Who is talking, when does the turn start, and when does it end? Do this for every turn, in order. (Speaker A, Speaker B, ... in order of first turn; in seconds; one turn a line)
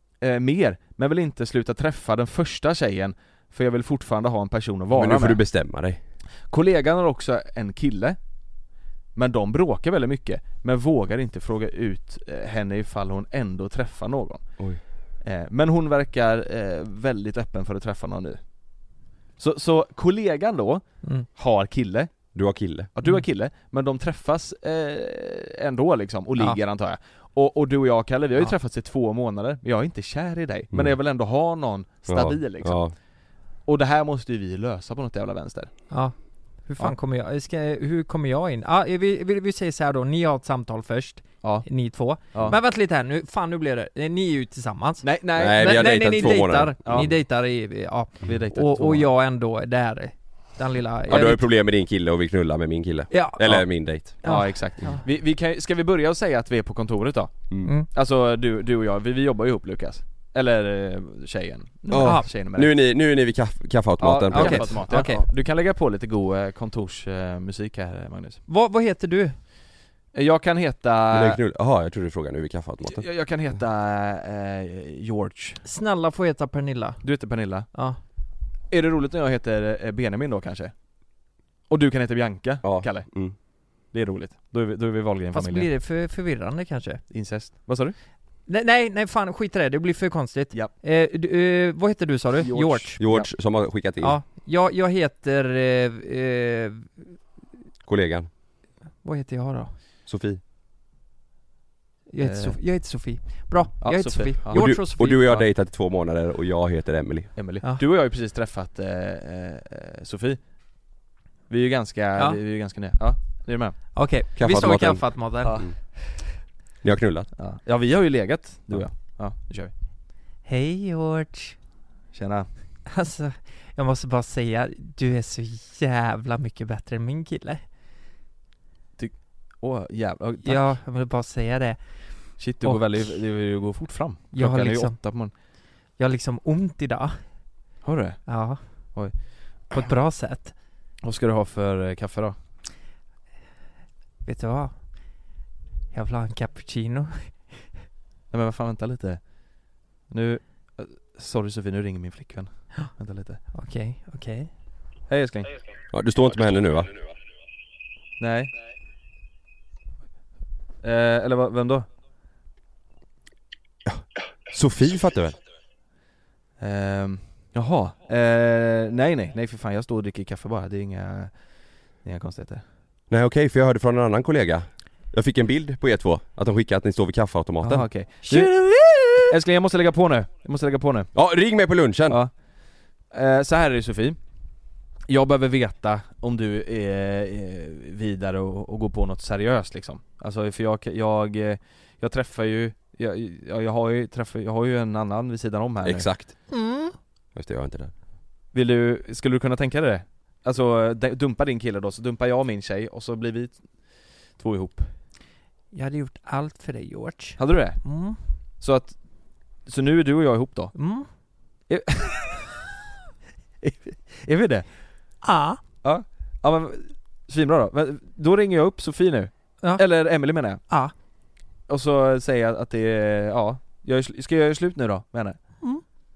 Speaker A: 0.2-5.4
Speaker B: 4.9-6.0
Speaker A: 6.5-8.2
Speaker A: 9.1-14.6
Speaker A: 15.2-18.4
Speaker A: 19.4-22.2
Speaker B: 22.3-22.9
Speaker A: 22.9-32.9
Speaker B: 32.1-32.9
Speaker A: 33.6-35.8
Speaker C: 35.9-51.5
Speaker A: 41.4-41.7
Speaker A: 42.3-42.6
Speaker A: 45.0-45.9
Speaker B: 45.3-47.1
Speaker A: 46.8-47.1
Speaker A: 48.2-49.1
Speaker B: 51.1-54.2
Speaker C: 53.1-53.4
Speaker C: 54.2-55.0
Speaker A: 54.2-62.7
Speaker C: 61.9-62.3
Speaker B: 61.9-64.9
Speaker A: 64.0-68.4
Speaker C: 64.3-65.2
Speaker C: 68.5-69.4
Speaker A: 70.1-71.4
Speaker B: 71.1-73.0
Speaker A: 72.8-75.6
Speaker C: 75.6-78.0
Speaker A: 77.0-77.7
Speaker A: 78.7-80.7
Speaker A: 81.7-83.2
Speaker B: 82.6-83.3
Speaker A: 83.8-85.7
Speaker C: 85.3-87.0
Speaker A: 87.1-88.0
Speaker C: 88.5-93.0
Speaker A: 92.4-93.3
Speaker B: 93.0-94.2
Speaker C: 94.0-97.1
Speaker B: 97.8-98.3
Speaker C: 99.0-99.7
Speaker B: 100.1-100.4
Speaker C: 102.1-105.5
Speaker A: 102.2-102.6
Speaker A: 103.8-104.8
Speaker B: 104.5-107.3
Speaker A: 107.4-110.4
Speaker A: 111.5-113.8
Speaker C: 113.9-115.6
Speaker B: 114.4-115.0
Speaker A: 115.4-115.9
Speaker B: 116.8-117.3
Speaker A: 117.4-119.7
Speaker C: 120.5-121.5
Speaker A: 122.1-122.5
Speaker C: 122.9-127.6
Speaker A: 129.0-130.7
Speaker C: 130.4-133.1
Speaker A: 132.4-135.3
Speaker C: 134.3-135.0
Speaker C: 136.0-137.2
Speaker A: 137.8-139.1
Speaker C: 138.3-138.9
Speaker C: 139.7-140.5
Speaker A: 141.0-142.4
Speaker C: 144.2-145.3
Speaker C: 145.9-147.7
Speaker A: 148.3-153.4
Speaker C: 153.5-154.5
Speaker A: 155.1-155.6
Speaker B: 155.9-157.0
Speaker A: 158.2-158.5
Speaker A: 160.8-161.9
Speaker B: 163.8-165.4
Speaker A: 166.6-172.6
Speaker B: 173.1-177.9
Speaker A: 177.6-178.6
Speaker C: 178.2-179.3
Speaker A: 179.3-181.1
Speaker B: 181.1-182.2
Speaker A: 182.1-182.3
Speaker A: 183.1-184.2
Speaker A: 185.1-196.1
Speaker B: 195.8-196.4
Speaker C: 196.5-196.9
Speaker B: 197.3-197.9
Speaker A: 198.5-204.9
Speaker C: 205.7-208.2
Speaker A: 207.4-208.1
Speaker A: 208.6-209.0
Speaker A: 209.6-210.7
Speaker C: 210.7-211.1
Speaker A: 211.7-212.5
Speaker A: 213.6-214.7
Speaker C: 215.2-215.6
Speaker A: 215.8-220.6
Speaker A: 221.7-225.4